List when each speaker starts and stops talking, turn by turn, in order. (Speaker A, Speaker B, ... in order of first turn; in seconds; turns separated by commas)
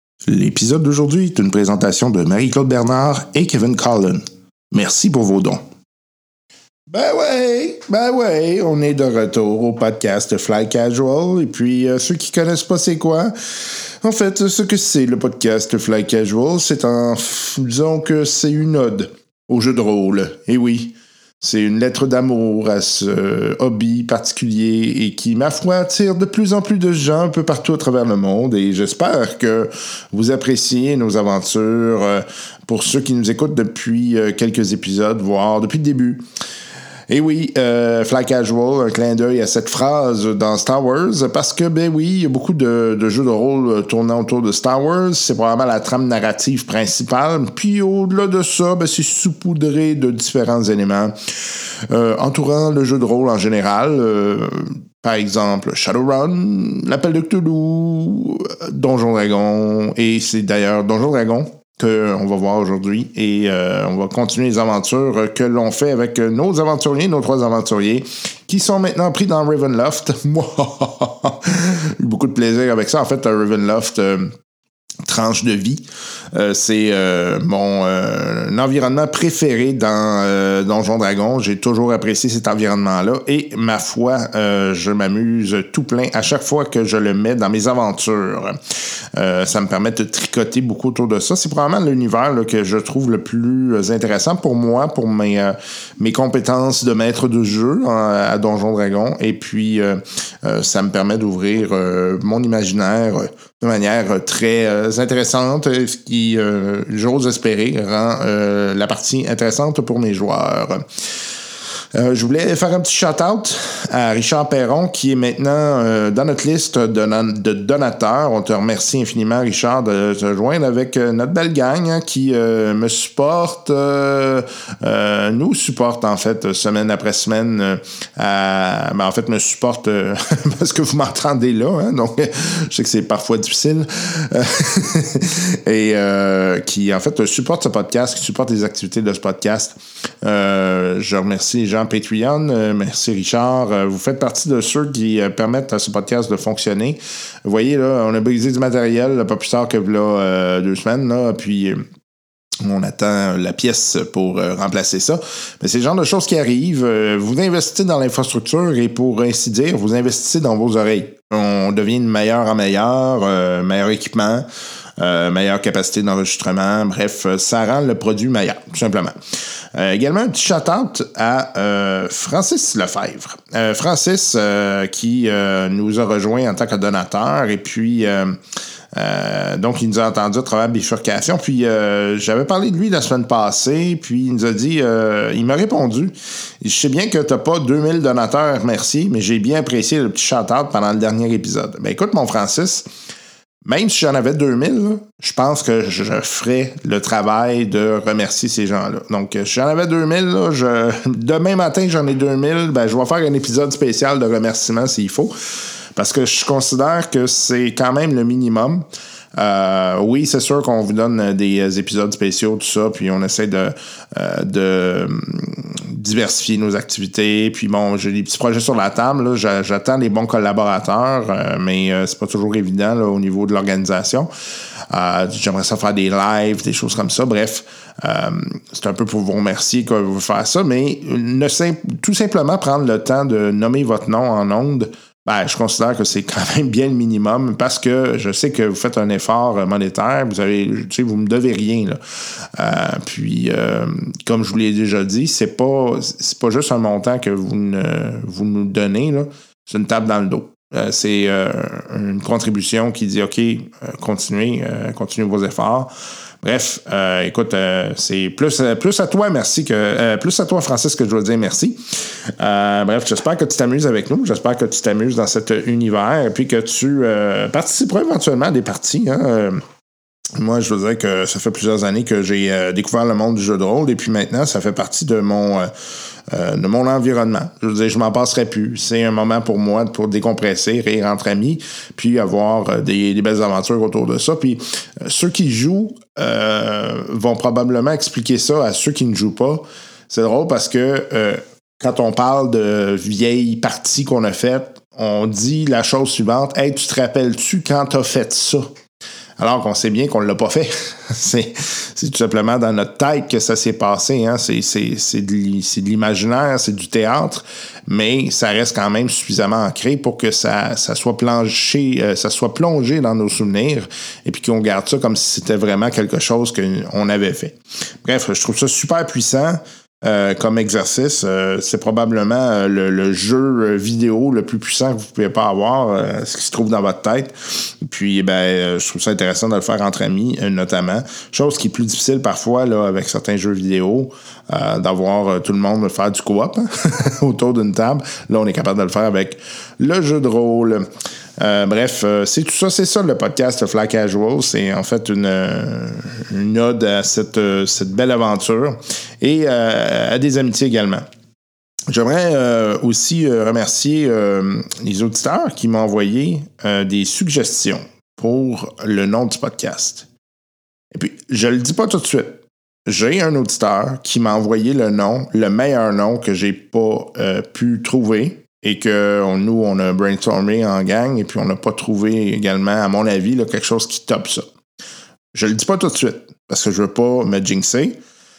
Speaker A: 0.2-5.6, Speaker A: 6.9-36.2, Speaker A: 37.1-74.3, Speaker A: 75.0-88.6, Speaker A: 89.1-111.2, Speaker A: 111.9-151.8, Speaker A: 152.6-164.4, Speaker A: 165.0-178.4, Speaker A: 178.9-192.9, Speaker A: 193.6-205.3, Speaker A: 205.9-208.8, Speaker A: 209.3-224.3, Speaker A: 224.9-269.6, Speaker A: 270.4-275.7, Speaker A: 276.3-298.7, Speaker A: 299.4-351.0, Speaker A: 351.9-360.1, Speaker A: 360.9-374.4, Speaker A: 375.3-378.0